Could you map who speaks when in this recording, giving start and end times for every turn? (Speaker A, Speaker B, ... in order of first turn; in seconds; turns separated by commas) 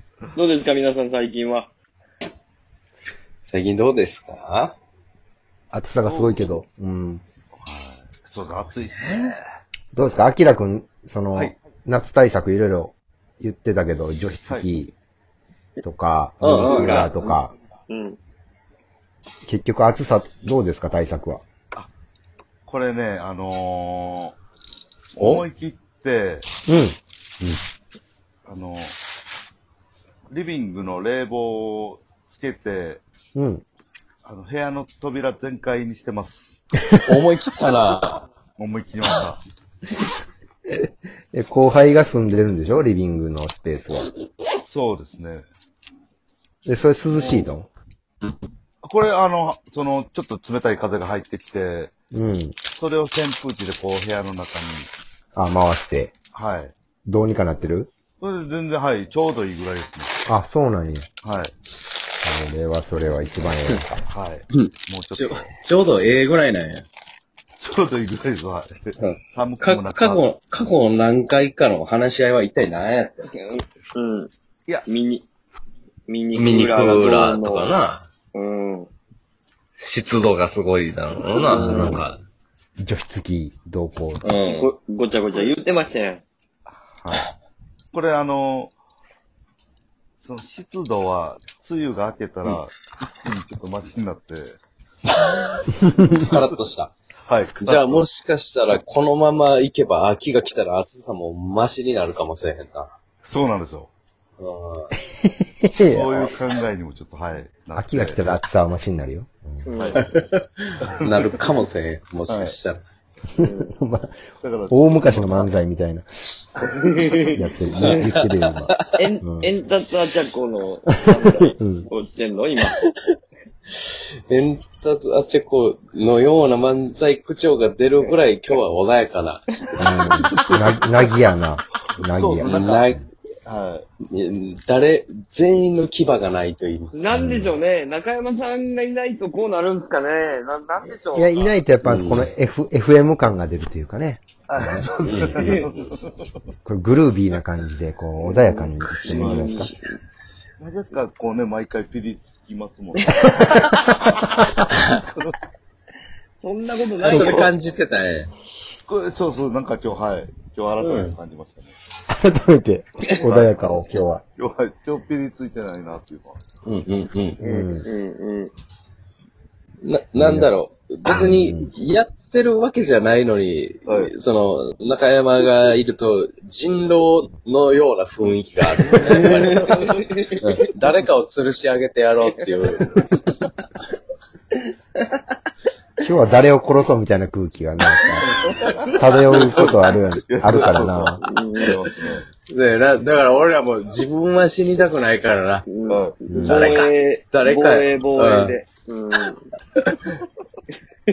Speaker A: 0.3-1.7, Speaker B: 3.4-4.8, Speaker C: 5.7-7.2, Speaker D: 6.0-6.5, Speaker D: 7.5-9.4, Speaker B: 8.3-9.3, Speaker C: 9.9-14.9, Speaker C: 15.8-17.5, Speaker B: 16.4-17.1, Speaker A: 16.5-18.2, Speaker C: 19.4-21.4, Speaker D: 22.7-24.4, Speaker D: 25.2-26.5, Speaker B: 25.2-25.4, Speaker C: 26.7-27.0, Speaker D: 28.4-28.9, Speaker D: 30.3-33.0, Speaker C: 33.3-33.6, Speaker D: 34.2-36.6, Speaker B: 37.0-38.2, Speaker D: 38.6-39.4, Speaker C: 40.7-44.1, Speaker D: 44.6-45.4, Speaker C: 46.6-47.7, Speaker D: 48.8-51.9, Speaker C: 52.1-52.6, Speaker D: 52.7-54.9, Speaker C: 55.3-56.1, Speaker D: 56.3-56.8, Speaker C: 57.1-57.9, Speaker D: 58.2-60.2, Speaker C: 60.3-61.1, Speaker D: 61.2-61.5, Speaker C: 62.2-64.0, Speaker D: 64.1-65.6, Speaker B: 64.5-66.8, Speaker D: 67.6-70.3, Speaker B: 69.0-73.3, Speaker A: 73.3-74.3, Speaker A: 74.9-75.2, Speaker A: 76.1-77.8, Speaker B: 76.3-78.1, Speaker A: 78.3-78.9, Speaker B: 79.8-82.2, Speaker C: 81.4-82.0, Speaker A: 81.5-81.9, Speaker C: 82.8-84.3, Speaker B: 84.2-84.7, Speaker A: 84.4-86.2, Speaker D: 86.7-87.3, Speaker D: 87.9-88.7, Speaker D: 90.2-94.6, Speaker B: 95.2-96.9, Speaker D: 97.3-98.0, Speaker B: 97.6-102.9, Speaker D: 103.2-103.9, Speaker B: 104.4-104.9, Speaker C: 105.1-106.3, Speaker D: 105.9-108.2, Speaker C: 107.8-109.7, Speaker A: 109.7-110.0, Speaker B: 110.0-112.8, Speaker D: 110.9-111.2, Speaker D: 112.3-112.6, Speaker C: 113.3-116.0, Speaker A: 113.4-113.7, Speaker D: 114.4-115.5, Speaker A: 116.8-118.0, Speaker C: 117.3-119.5, Speaker B: 117.7-119.0, Speaker A: 119.0-122.7, Speaker C: 121.4-121.9, Speaker B: 123.8-130.4, Speaker C: 129.8-132.9, Speaker D: 132.0-133.8, Speaker B: 132.4-133.0, Speaker B: 134.1-137.2, Speaker A: 136.9-141.5, Speaker C: 137.1-137.6, Speaker C: 141.1-144.9, Speaker B: 141.8-142.3, Speaker D: 144.5-146.3, Speaker B: 144.9-145.9, Speaker A: 145.3-145.7, Speaker C: 146.7-149.7, Speaker A: 148.2-149.8, Speaker B: 148.8-149.8, Speaker D: 149.1-149.6, Speaker D: 150.6-153.6, Speaker C: 153.4-154.6, Speaker A: 156.4-157.5, Speaker B: 157.0-158.3, Speaker C: 157.1-157.3, Speaker D: 158.8-161.8, Speaker B: 160.8-161.2, Speaker C: 162.1-164.2, Speaker D: 163.2-163.7, Speaker D: 164.4-166.4, Speaker B: 166.7-167.4, Speaker C: 167.4-167.9, Speaker A: 167.4-168.5, Speaker B: 169.8-183.0, Speaker C: 170.2-170.5, Speaker C: 171.1-171.7, Speaker D: 173.8-174.1, Speaker A: 179.2-180.4, Speaker C: 186.0-188.3, Speaker C: 188.9-191.2, Speaker B: 189.2-189.8, Speaker D: 189.3-189.7, Speaker D: 190.3-192.2, Speaker B: 190.5-190.8, Speaker A: 191.2-191.8, Speaker B: 192.5-195.7, Speaker A: 195.7-199.4, Speaker D: 195.9-196.2, Speaker C: 196.3-196.6, Speaker B: 196.4-198.6